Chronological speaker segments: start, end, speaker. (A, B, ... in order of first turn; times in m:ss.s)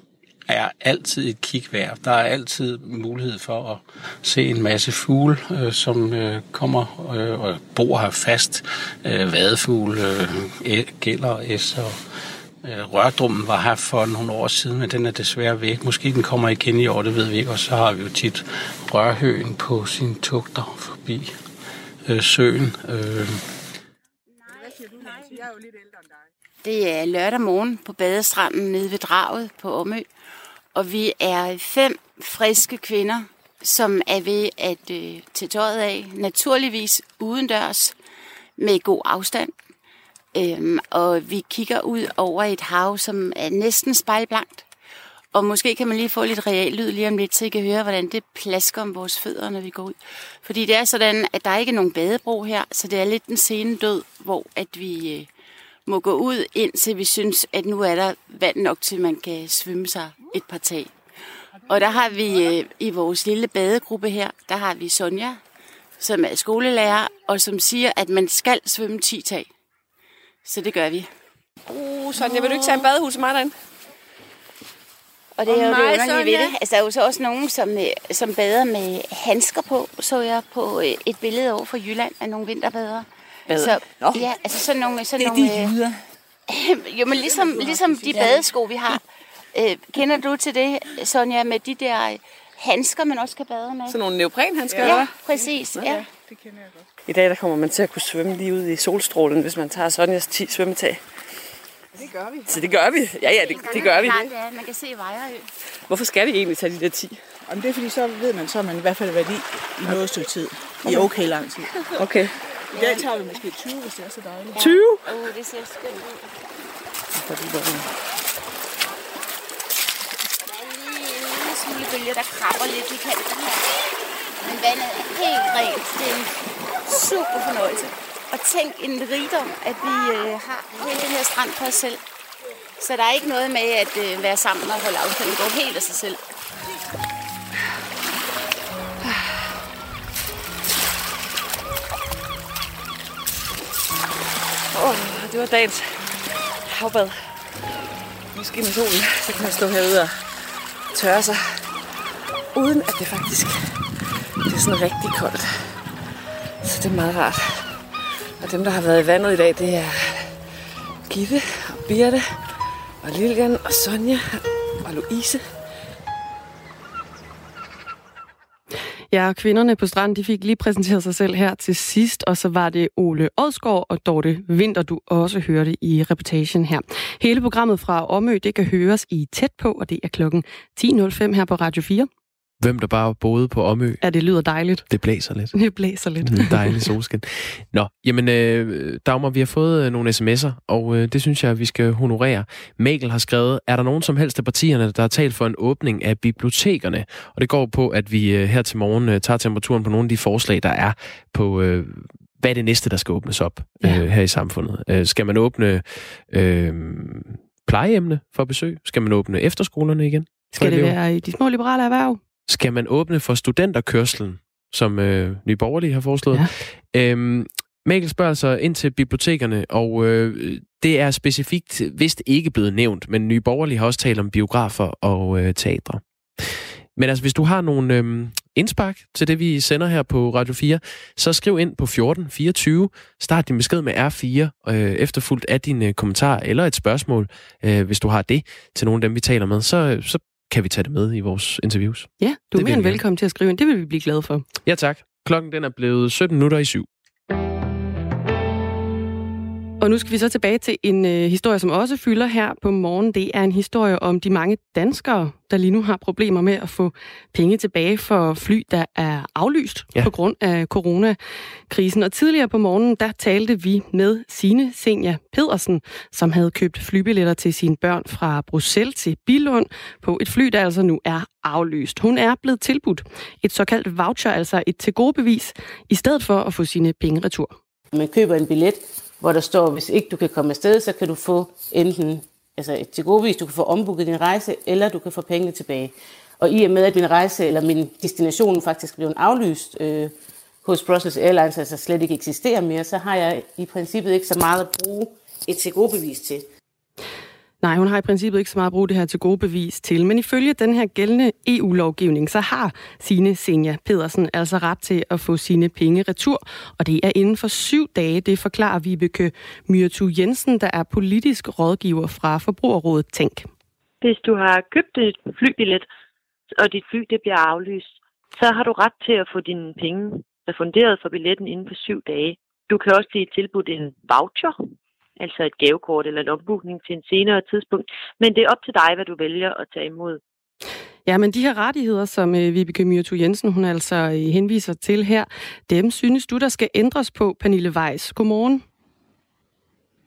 0:00.5-0:12.0 A
0:12.6-0:21.3 A
0:22.1-0:23.4 A
0:24.5-0:25.4 B
0:26.6-0:30.1 B
0:30.7-0:38.0 B
0:38.6-0:39.5 B
0:40.3-0:44.6 B
0:45.3-0:55.3 B
0:55.9-1:00.9 B
1:01.6-1:05.4 B
1:06.0-1:09.5 B
1:10.4-1:11.1 B
1:11.7-1:13.6 C
1:12.3-1:12.8 B
1:15.4-1:25.8 B
1:26.5-1:29.0 B
1:29.5-1:34.0 B
1:33.9-1:35.2 C
1:34.8-1:36.1 B
1:34.8-1:36.6 D
1:37.1-1:41.1 C
1:42.5-1:44.3 C
1:43.5-1:45.5 B
1:45.7-1:47.3 C
1:47.5-1:51.8 D
1:50.8-1:51.1 C
1:51.9-1:52.4 C
1:52.8-1:54.6 D
1:54.5-1:56.2 B
1:54.6-1:55.1 C
1:57.2-1:57.9 C
2:00.5-2:03.6 B
2:04.4-2:12.0 B
2:12.8-2:16.2 B
2:19.0-2:19.6 C
2:24.7-2:27.5 C
2:28.3-2:31.9 C
2:32.5-2:36.1 C
2:36.6-2:45.7 C
2:49.1-3:02.1 E
3:02.6-3:04.0 F
3:04.0-3:04.9 E
3:04.9-3:05.6 F
3:05.5-3:06.9 E
3:06.2-3:31.0 F
3:30.5-3:32.2 E
3:32.5-4:03.0 F
4:02.2-4:04.5 E
4:04.6-4:06.9 F
4:09.8-4:21.2 E
4:21.7-4:37.6 E
4:37.9-4:56.4 G
4:57.6-5:13.5 E
5:14.0-5:15.9 H
5:16.6-5:24.6 H
5:25.2-5:30.2 H
5:31.1-5:38.6 E